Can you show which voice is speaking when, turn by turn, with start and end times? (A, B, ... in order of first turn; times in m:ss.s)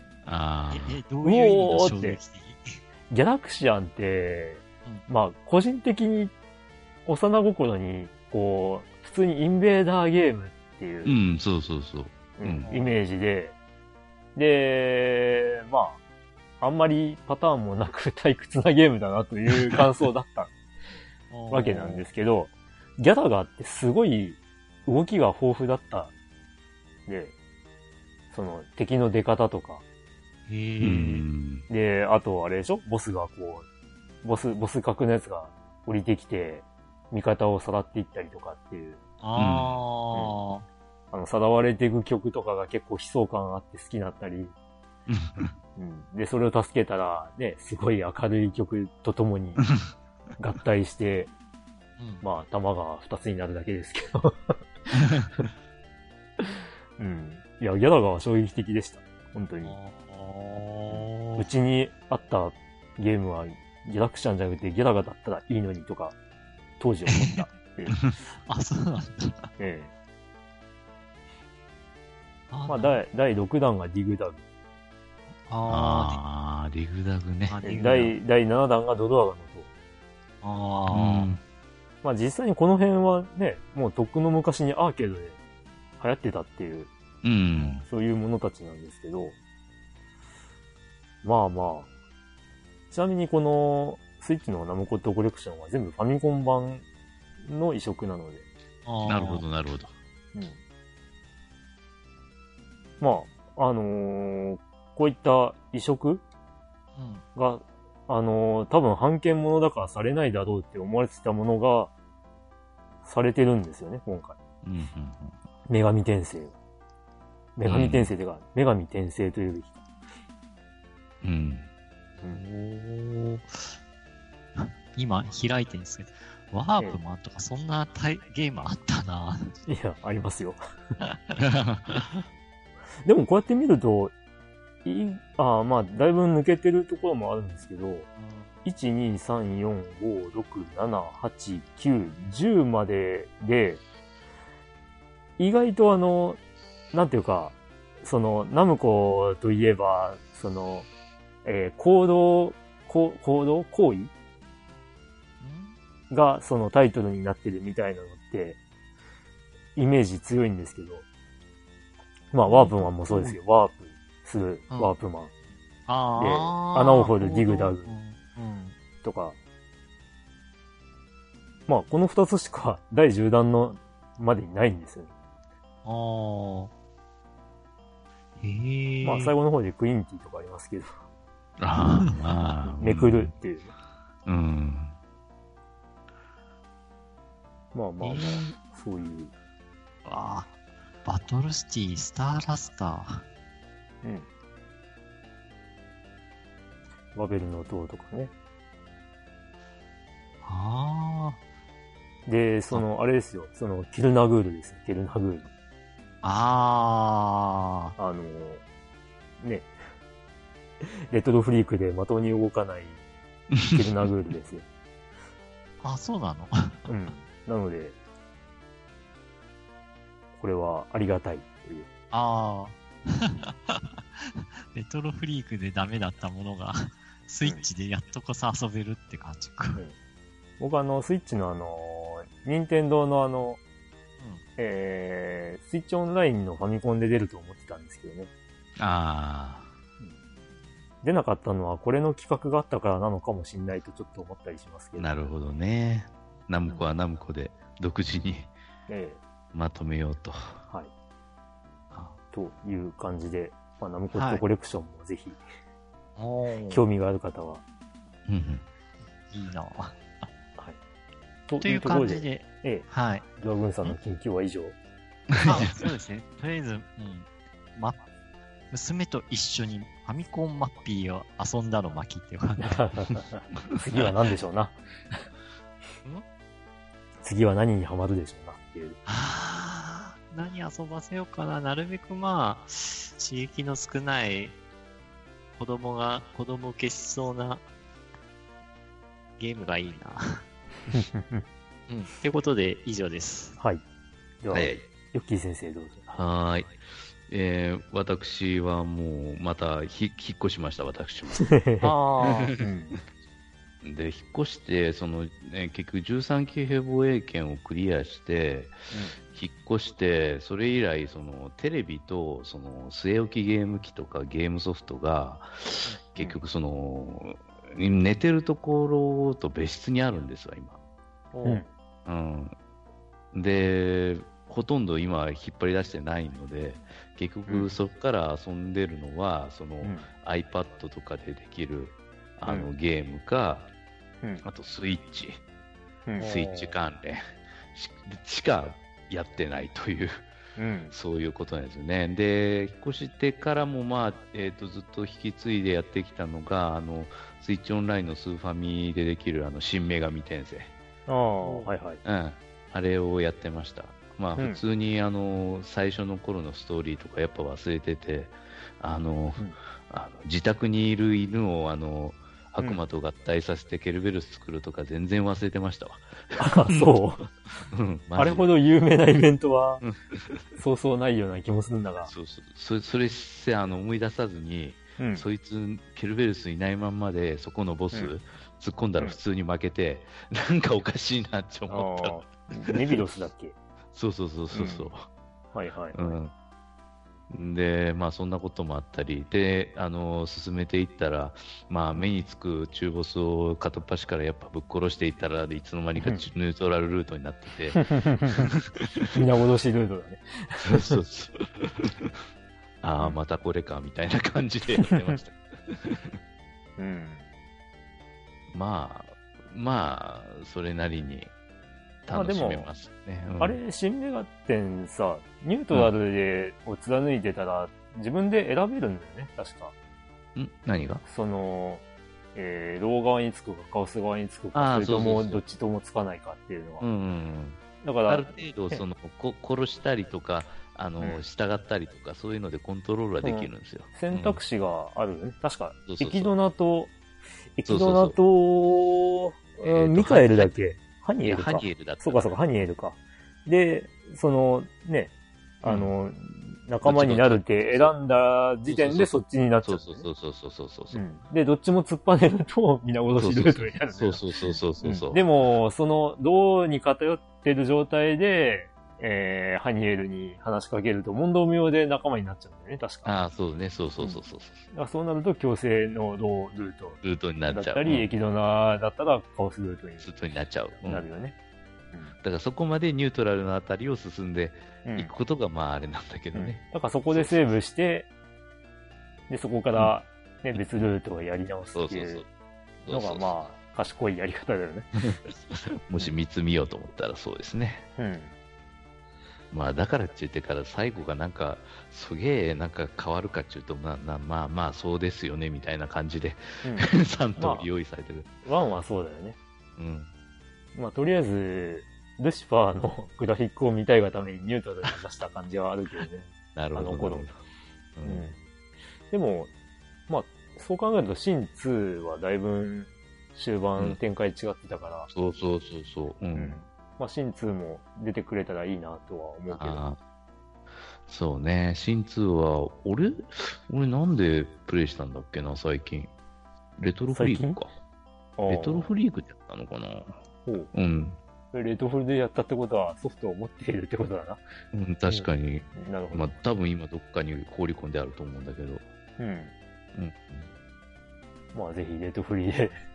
0:00.2-0:01.0 A
0:00.7-0:02.8 B
0:01.2-0:02.2 C
0:03.1-0:06.3 C
0:07.1-0:11.2 C
0:11.0-0:12.7 A
0:12.4-0:13.6 C
0:12.6-0:12.9 B
0:14.4-0:16.0 C
0:16.6-0:20.5 C
0:21.3-0:22.1 B
0:21.5-0:26.1 C
0:27.1-0:27.4 C
0:28.3-0:29.8 C
0:30.5-0:31.2 B
0:30.8-0:31.7 A
0:31.7-0:33.7 C
0:34.2-0:39.0 C
0:39.2-0:40.6 B
0:39.4-0:39.8 A
0:40.1-0:40.4 C
0:41.1-0:44.5 C
0:45.1-0:45.5 A
0:45.8-0:49.6 C
0:50.4-0:51.3 C
0:52.0-0:52.2 B
0:52.2-0:54.6 C
0:56.4-0:59.8 C
0:59.6-1:01.5 B
1:00.9-1:06.2 C
1:06.8-1:08.0 C
1:07.1-1:07.5 B
1:08.5-1:09.5 B
1:09.6-1:09.9 C
1:12.5-1:13.0 B
1:12.7-1:14.4 C
1:15.4-1:16.2 B
1:15.7-1:17.6 A
1:17.5-1:18.2 B
1:17.6-1:19.7 C
1:20.4-1:21.4 B
1:20.9-1:21.4 A
1:22.0-1:25.4 C
1:26.0-1:26.9 C
1:27.2-1:27.8 A
1:27.5-1:27.8 B
1:27.9-1:29.4 C
1:31.2-1:31.9 C
1:32.9-1:36.8 C
1:37.4-1:38.4 C
1:38.9-1:39.4 B
1:39.1-1:40.0 A
1:43.0-1:46.2 C
1:47.0-1:47.2 B
1:47.4-1:51.9 C
1:53.0-1:54.4 C
1:54.6-1:55.3 A
1:55.7-1:56.5 C
1:57.6-1:59.8 C
1:57.7-1:58.1 A
2:01.2-2:01.7 A
2:02.2-2:03.7 B
2:04.6-2:09.5 B
2:09.7-2:10.6 C
2:11.4-2:12.1 A
2:13.0-2:14.1 C
2:14.8-2:18.1 C
2:18.2-2:18.6 B
2:18.6-2:23.8 C
2:25.4-2:26.4 C
2:26.9-2:30.9 C
2:31.4-2:34.1 C
2:35.4-2:35.8 B
2:36.1-2:38.6 C
2:39.8-2:41.0 C
2:42.3-2:45.3 C
2:42.5-2:43.4 B
2:45.9-2:48.8 B
2:46.2-2:47.9 C
2:49.0-2:49.4 C
2:51.7-2:55.1 C
2:55.8-2:56.7 B
2:58.4-2:59.4 B
2:59.0-3:00.9 C
3:01.6-3:03.3 A
3:02.8-3:03.7 C
3:04.3-3:04.9 A
3:07.7-3:09.3 C
3:08.0-3:08.5 B
3:10.0-3:10.5 B
3:11.0-3:13.2 B
3:17.2-3:18.3 C
3:20.4-3:21.4 B
3:22.3-3:25.5 C
3:26.2-3:28.0 B
3:28.0-3:28.6 C
3:29.4-3:29.7 C
3:30.8-3:33.0 C
3:33.6-3:33.8 A
3:33.7-3:34.6 C
3:35.8-3:36.9 B
3:36.9-3:38.0 C
3:40.4-3:41.9 C
3:42.1-3:49.8 B
3:50.6-3:53.6 C
3:54.2-3:54.4 B
3:54.6-3:58.3 C
3:58.8-3:59.7 A
4:01.0-4:05.1 C
4:05.0-4:08.5 A
4:08.9-4:09.2 C
4:09.5-4:10.6 A
4:12.3-4:15.4 C
4:14.1-4:14.4 B
4:16.2-4:16.8 B
4:16.7-4:17.6 C
4:18.3-4:18.6 A
4:19.3-4:20.0 B
4:21.5-4:24.8 C
4:21.6-4:23.3 B
4:25.3-4:25.8 A
4:25.4-4:28.0 B
4:28.7-4:32.9 B
4:32.6-4:35.2 C
4:37.2-4:39.0 C
4:39.1-4:44.6 B
4:45.6-4:47.6 B
4:49.4-4:50.4 B
4:50.9-4:51.4 C
4:51.9-4:53.6 B
4:54.4-4:56.0 C
4:54.5-4:54.9 A
4:56.1-5:01.5 A
5:01.5-5:03.0 C
5:01.8-5:02.5 B
5:02.2-5:02.5 A
5:03.8-5:20.8 A
5:08.9-5:09.2 C
5:21.3-5:21.6 B
5:21.4-5:21.7 C
5:22.1-5:22.6 A
5:23.3-5:33.7 A
5:27.5-5:27.7 C
5:29.8-5:30.1 C
5:34.4-5:35.4 A
5:36.1-5:36.3 C
5:36.2-5:36.7 B
5:36.2-5:40.3 A
5:40.6-5:41.0 C
5:40.9-5:50.7 A
5:51.1-5:52.0 C
5:52.0-6:07.0 A
5:54.4-5:54.6 C
6:06.4-6:07.2 C
6:07.7-6:08.5 A
6:08.2-6:09.8 C
6:09.8-6:10.4 A
6:10.6-6:12.1 C
6:12.1-6:22.7 A
6:15.0-6:15.3 C
6:21.7-6:23.6 C
6:23.9-6:25.1 A
6:24.5-6:24.9 C
6:25.5-6:26.2 C
6:25.9-6:26.3 A
6:27.3-6:38.9 A
6:36.0-6:36.2 C
6:37.8-6:38.5 C
6:39.1-6:41.0 C
6:40.6-6:42.2 A
6:42.8-6:46.2 A
6:46.8-6:47.2 C
6:48.5-6:51.3 A
6:52.1-6:53.6 A
6:52.1-6:52.7 C
6:53.4-6:59.7 C
7:00.4-7:01.0 A
7:01.0-7:01.8 C
7:02.4-7:06.9 C
7:04.5-7:05.4 A
7:06.8-7:14.4 A
7:07.8-7:08.8 C
7:13.2-7:17.0 C
7:15.9-7:16.3 A
7:17.6-7:30.1 C
7:17.7-7:18.2 A
7:19.6-7:20.5 A
7:21.2-7:22.4 A
7:25.6-7:25.9 A
7:26.8-7:28.0 A
7:28.7-7:31.0 A
7:30.9-7:43.2 C
7:33.2-7:35.3 A
7:43.0-7:44.7 A
7:44.0-7:50.1 C
7:47.0-7:48.1 A
7:50.0-7:51.0 A
7:50.8-7:51.4 C
7:52.2-7:57.5 A
7:54.8-7:55.1 C
7:56.3-7:58.1 C
7:59.3-8:02.2 C
8:01.8-8:02.3 A
8:02.8-8:03.4 A
8:02.9-8:04.9 C
8:05.0-8:07.9 A
8:08.0-8:08.3 C
8:09.5-8:18.3 A
8:16.6-8:17.7 C
8:18.4-8:19.4 C
8:19.8-8:20.1 A
8:20.8-8:27.3 C
8:26.6-8:27.4 A
8:28.0-8:28.4 A
8:28.0-8:28.4 C
8:29.1-8:29.5 C
8:30.1-8:35.1 C
8:35.1-8:36.6 A
8:36.4-8:39.8 C
8:39.5-8:40.0 A
8:41.0-8:46.1 A
8:46.8-8:47.7 A
8:47.1-8:47.6 C
8:48.4-8:48.9 C
8:48.5-8:50.2 A
8:50.5-8:50.7 C
8:50.7-8:51.2 A
8:51.5-8:54.4 C
8:54.7-8:58.8 A
8:55.1-8:56.4 C
8:59.2-8:59.5 C
9:00.0-9:00.5 A
9:01.5-9:02.8 C